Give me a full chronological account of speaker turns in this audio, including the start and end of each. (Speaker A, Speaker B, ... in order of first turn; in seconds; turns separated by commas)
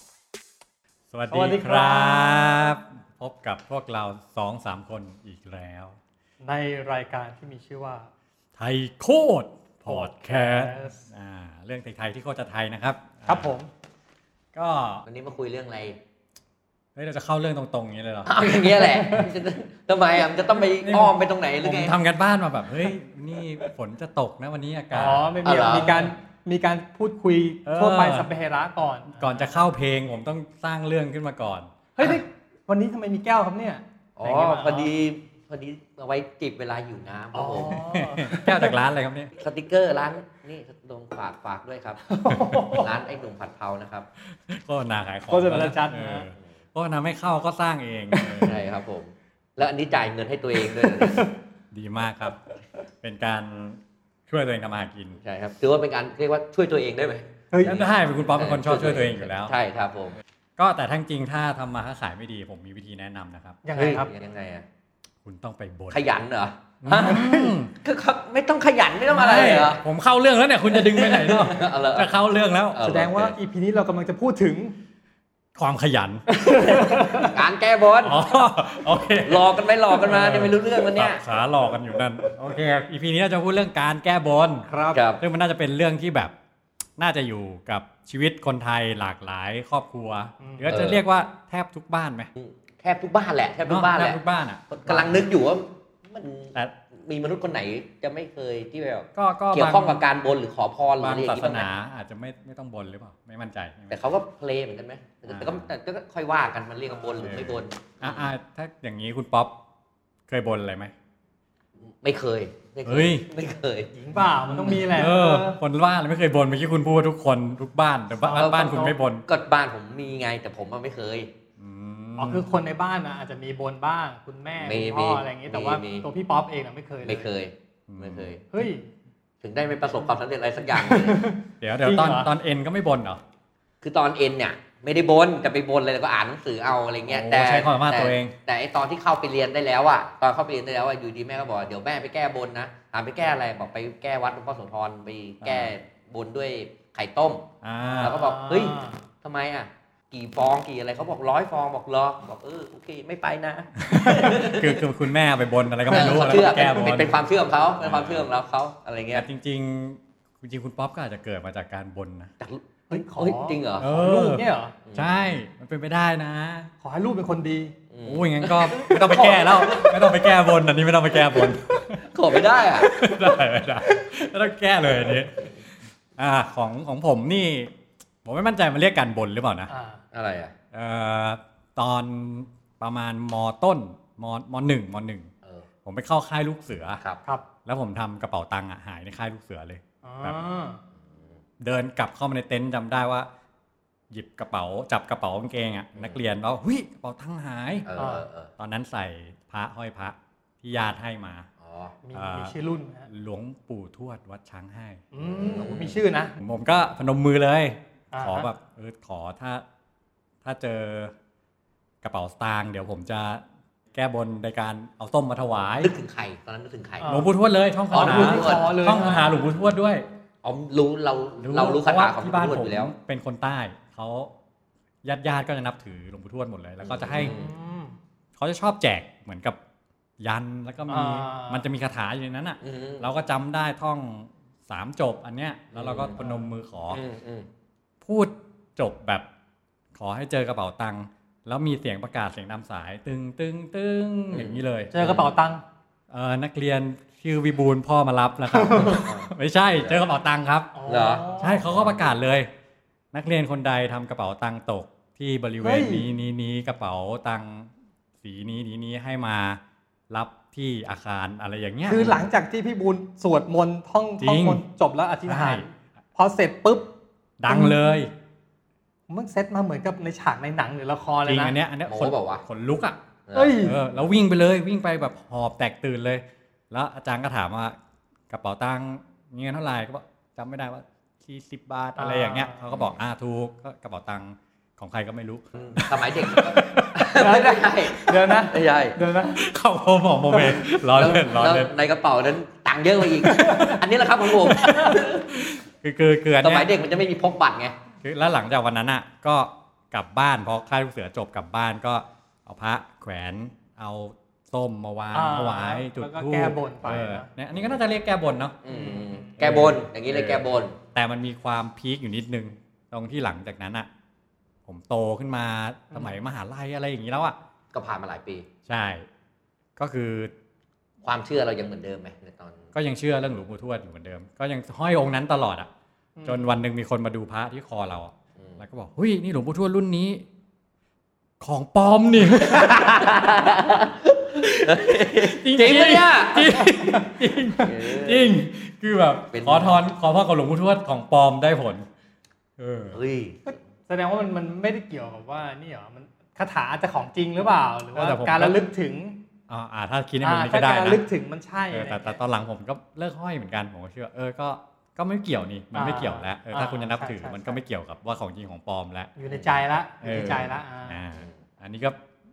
Speaker A: 1.1-6.0, Speaker B: 1.3-2.7, Speaker B: 6.4-8.1, Speaker A: 8.6-13.5, Speaker B: 9.8-11.1, Speaker B: 13.2-13.7, Speaker A: 14.5-15.0, Speaker C: 15.1-16.0, Speaker A: 16.9-18.4, Speaker C: 18.2-21.9, Speaker B: 18.8-19.3, Speaker A: 20.8-25.7, Speaker B: 24.9-29.5, Speaker C: 25.4-26.1, Speaker A: 27.6-28.3, Speaker A: 29.1-32.2, Speaker B: 31.9-34.9, Speaker C: 34.2-37.9, Speaker B: 37.3-38.7, Speaker A: 37.7-39.3, Speaker C: 39.4-42.0, Speaker B: 42.0-42.9, Speaker A: 42.3-42.7, Speaker C: 42.7-44.1, Speaker A: 44.2-48.6, Speaker B: 45.3-46.3, Speaker C: 48.4-51.3, Speaker B: 50.8-51.3, Speaker A: 51.7-52.4, Speaker A: 53.0-55.2, Speaker C: 55.2-60.2, Speaker B: 57.5-57.8, Speaker A: 57.6-59.5, Speaker A: 60.6-63.6, Speaker B: 63.6-64.1, Speaker C: 63.7-64.6, Speaker A: 65.2-66.0, Speaker C: 65.9-69.8, Speaker A: 66.8-67.7, Speaker B: 67.0-67.5, Speaker A: 69.1-72.8, Speaker C: 70.7-72.1, Speaker C: 72.7-73.3, Speaker B: 72.8-74.8, Speaker A: 75.5-76.2, Speaker B: 76.3-77.4, Speaker C: 76.6-78.4, Speaker A: 78.0-84.7, Speaker C: 79.2-81.2, Speaker B: 84.7-85.0, Speaker C: 84.9-85.2, Speaker A: 85.2-86.3, Speaker A: 87.0-92.3, Speaker B: 90.4-90.8, Speaker C: 90.7-91.0, Speaker C: 92.3-94.2, Speaker A: 93.7-95.2, Speaker C: 94.7-101.7, Speaker A: 99.1-100.0, Speaker A: 101.0-104.0, Speaker C: 103.9-108.3, Speaker A: 105.3-105.7, Speaker A: 107.2-109.5, Speaker A: 110.3-110.9, Speaker C: 111.8-113.9, Speaker A: 112.8-113.2, Speaker B: 113.9-115.6, Speaker A: 114.5-119.2, Speaker B: 118.2-118.9, Speaker C: 118.3-121.3, Speaker A: 121.6-122.6, Speaker B: 122.2-127.3, Speaker C: 124.6-126.0, Speaker C: 127.0-128.4, Speaker A: 127.9-128.3, Speaker B: 128.5-128.8, Speaker C: 129.4-131.2, Speaker B: 130.7-132.3, Speaker A: 131.6-133.2, Speaker C: 133.8-147.4, Speaker A: 137.1-138.3, Speaker A: 145.4-145.7, Speaker A: 147.6-148.2, Speaker B: 147.8-149.0, Speaker C: 148.0-154.8, Speaker A: 153.9-157.2, Speaker C: 155.9-159.2, Speaker B: 155.9-156.3, Speaker A: 157.8-158.3, Speaker A: 159.1-162.3, Speaker C: 162.4-163.8, Speaker B: 162.9-164.7, Speaker A: 163.8-164.4, Speaker C: 164.8-165.3, Speaker A: 164.9-166.7, Speaker B: 166.8-167.7, Speaker C: 167.9-170.1, Speaker A: 168.0-172.0, Speaker B: 168.9-169.1, Speaker C: 172.1-172.9, Speaker A: 172.8-175.5, Speaker B: 172.9-173.4, Speaker A: 176.2-177.7, Speaker A: 178.2-179.7, Speaker B: 179.7-180.0, Speaker C: 180.1-180.5, Speaker A: 180.7-185.3, Speaker A: 185.8-187.0, Speaker A: 187.6-190.4, Speaker B: 190.0-190.8, Speaker A: 191.6-193.3, Speaker A: 194.1-197.8, Speaker C: 197.8-198.5, Speaker B: 197.9-198.2, Speaker A: 198.6-201.5, Speaker C: 201.6-202.0, Speaker B: 202.0-203.1, Speaker A: 202.1-202.5, Speaker A: 203.1-205.0, Speaker B: 205.1-206.3, Speaker C: 205.2-206.0, Speaker A: 206.4-209.6, Speaker B: 208.1-208.5, Speaker A: 210.4-211.1, Speaker A: 212.0-213.4, Speaker A: 213.9-215.9, Speaker C: 215.8-217.2, Speaker B: 217.0-217.3, Speaker A: 217.1-220.0, Speaker B: 217.9-219.3, Speaker C: 217.9-219.1, Speaker C: 220.4-222.9, Speaker A: 221.4-224.3, Speaker A: 225.0-227.3, Speaker C: 226.8-227.5, Speaker B: 227.2-228.0, Speaker A: 228.4-229.6, Speaker A: 230.2-237.0, Speaker B: 230.9-231.6, Speaker C: 232.6-233.1, Speaker C: 235.7-236.2, Speaker B: 236.2-236.4, Speaker C: 236.9-237.5, Speaker A: 238.0-239.3, Speaker A: 239.9-244.9, Speaker C: 244.3-245.3, Speaker B: 244.9-245.6, Speaker A: 246.1-250.7, Speaker B: 248.5-249.0, Speaker C: 248.7-250.0, Speaker B: 250.7-251.6, Speaker C: 250.9-251.9, Speaker A: 251.4-252.5, Speaker A: 253.1-257.7, Speaker B: 255.6-256.1, Speaker A: 258.2-262.1, Speaker B: 261.8-266.9, Speaker A: 264.2-264.6, Speaker A: 265.3-265.6, Speaker A: 267.4-268.1, Speaker B: 267.5-267.8, Speaker B: 269.1-271.6, Speaker A: 271.2-273.0, Speaker C: 271.9-272.4, Speaker C: 273.3-273.6, Speaker B: 273.3-273.8, Speaker A: 273.6-277.8, Speaker A: 278.3-286.9, Speaker B: 282.0-282.6, Speaker C: 285.6-289.0, Speaker B: 287.1-289.4, Speaker A: 289.4-291.7, Speaker B: 290.3-290.6, Speaker C: 290.8-295.3, Speaker B: 293.2-293.8, Speaker B: 294.6-294.9, Speaker A: 295.3-296.7, Speaker C: 296.4-297.7, Speaker A: 298.0-308.6, Speaker B: 305.1-307.3, Speaker C: 308.6-310.8, Speaker B: 308.7-309.4, Speaker A: 309.4-313.9, Speaker A: 314.6-317.4, Speaker B: 315.9-316.2, Speaker C: 317.7-318.5, Speaker A: 318.6-319.1, Speaker A: 319.8-320.3, Speaker C: 321.0-322.7, Speaker A: 322.7-325.7, Speaker B: 326.1-326.6, Speaker A: 326.2-330.2, Speaker A: 331.4-333.6, Speaker C: 332.4-336.7, Speaker A: 334.4-341.9, Speaker C: 337.6-338.3, Speaker C: 339.3-339.8, Speaker A: 342.6-343.0, Speaker C: 342.9-343.4, Speaker B: 343.4-349.2, Speaker A: 347.9-348.6, Speaker A: 349.5-351.0, Speaker B: 350.2-352.1, Speaker A: 351.7-359.1, Speaker B: 355.7-357.6, Speaker B: 359.1-361.0, Speaker C: 359.3-359.6, Speaker A: 360.0-362.0